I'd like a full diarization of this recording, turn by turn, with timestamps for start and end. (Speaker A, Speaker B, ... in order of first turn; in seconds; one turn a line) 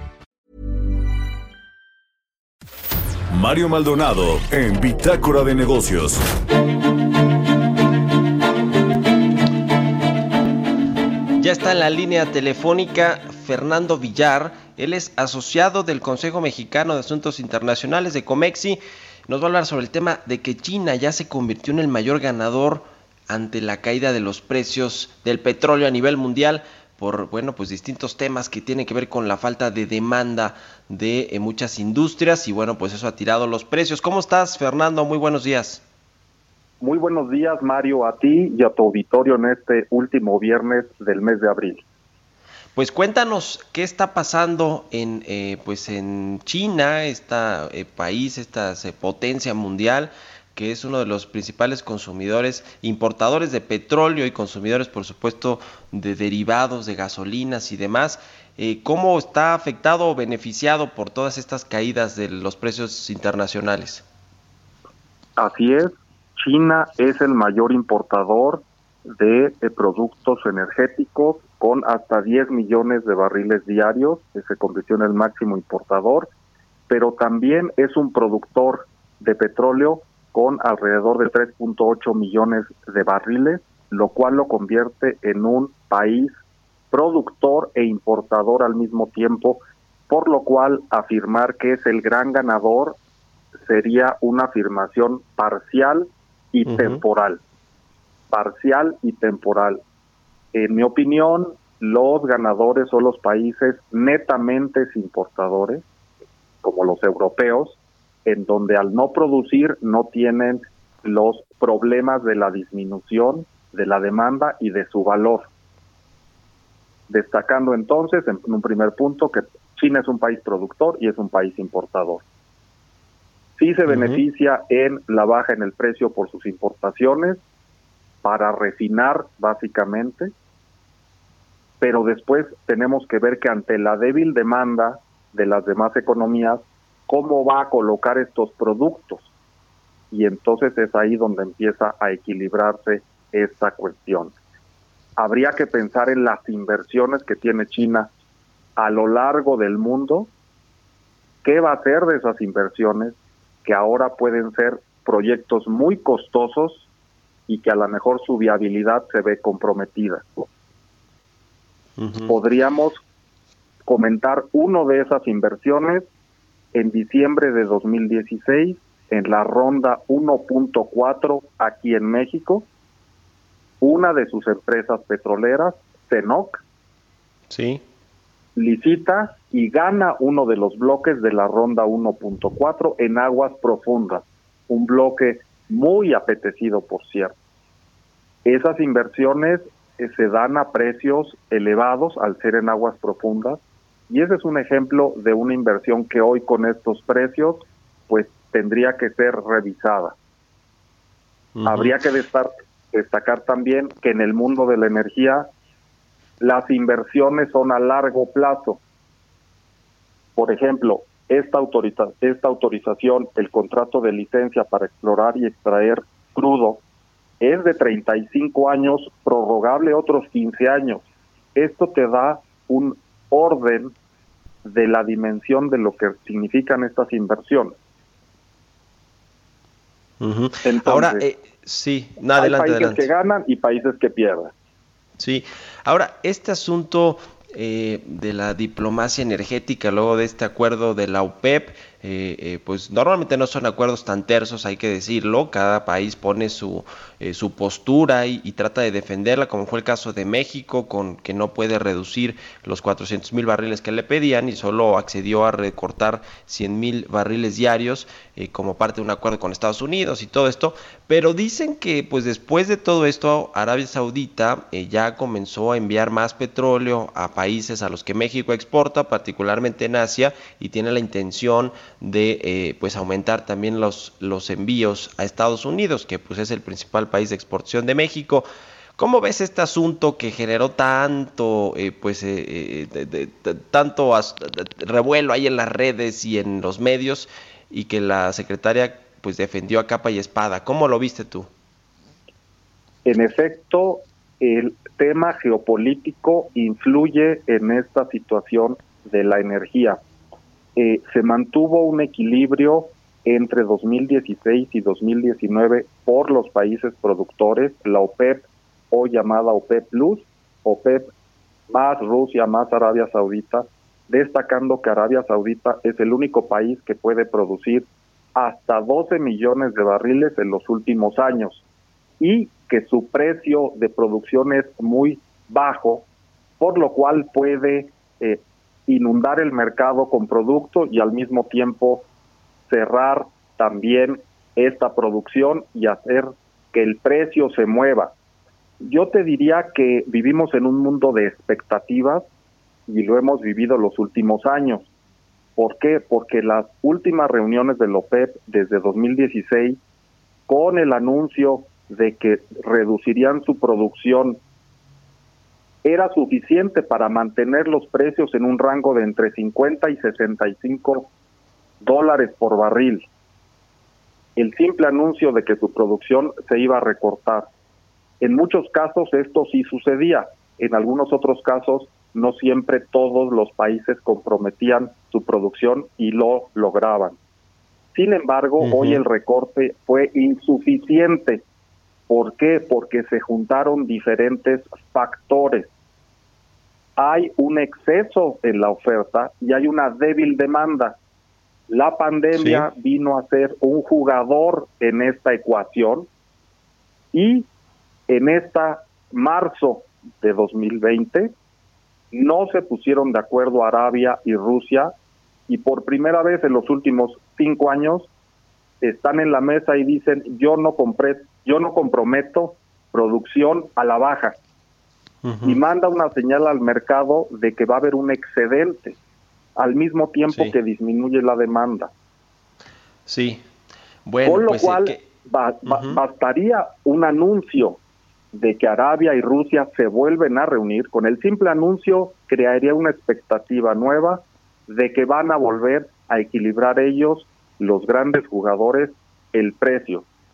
Speaker A: 3.3-6.2
Speaker B: 11.4-35.8
Speaker C: 36.8-41.8
Speaker B: 42.7-64.0
Speaker C: 65.4-68.6
Speaker C: 69.2-76.3
Speaker C: 76.9-86.3
Speaker C: 86.9-93.0
Speaker C: 93.7-97.4
Speaker B: 96.7-97.0
Speaker C: 98.3-99.8
Speaker C: 100.5-105.8
Speaker C: 106.6-115.5
Speaker C: 117.1-122.2
Speaker C: 123.6-127.4
Speaker B: 123.9-124.2
Speaker C: 128.2-130.3
Speaker C: 131.8-139.3
Speaker C: 140.1-144.3
Speaker C: 145.2-148.1
Speaker C: 148.8-150.3
Speaker C: 151.4-156.9
Speaker C: 157.5-160.5
Speaker B: 162.0-162.3
Speaker C: 162.3-163.0
Speaker C: 163.9-166.1
Speaker C: 166.7-172.7
Speaker C: 173.8-176.6
Speaker B: 177.5-177.8
Speaker C: 178.6-187.3
Speaker C: 188.4-200.1
Speaker B: 201.5-201.9
Speaker C: 201.6-205.4
Speaker C: 206.4-208.8
Speaker C: 210.3-216.8
Speaker C: 217.4-221.0
Speaker C: 221.6-223.9
Speaker C: 224.6-227.7
Speaker B: 230.2-233.1
Speaker C: 230.6-231.3
Speaker C: 232.3-234.5
Speaker B: 235.2-278.4
Speaker B: 279.0-291.5
Speaker C: 293.1-300.0
Speaker C: 300.8-311.1
Speaker C: 311.7-321.6
Speaker C: 322.2-326.1
Speaker C: 326.6-332.1
Speaker C: 332.7-338.1
Speaker C: 338.8-342.2
Speaker C: 342.9-344.9
Speaker C: 345.6-349.8
Speaker C: 350.5-354.4
Speaker C: 355.8-361.1
Speaker C: 361.8-363.1
Speaker C: 364.4-367.5
Speaker C: 368.2-377.1
Speaker C: 377.9-381.4
Speaker B: 378.6-379.0
Speaker C: 382.1-385.7
Speaker C: 387.0-391.0
Speaker C: 391.7-396.1
Speaker B: 392.3-392.7
Speaker C: 397.1-397.5
Speaker C: 398.1-401.3
Speaker C: 402.1-404.9
Speaker C: 405.5-408.1
Speaker C: 408.8-414.4
Speaker B: 415.2-415.6
Speaker C: 415.4-418.9
Speaker C: 419.6-421.9
Speaker B: 420.3-420.5
Speaker B: 423.1-423.4
Speaker B: 424.0-425.0
Speaker C: 424.2-427.8
Speaker B: 425.6-426.0
Speaker C: 428.3-440.0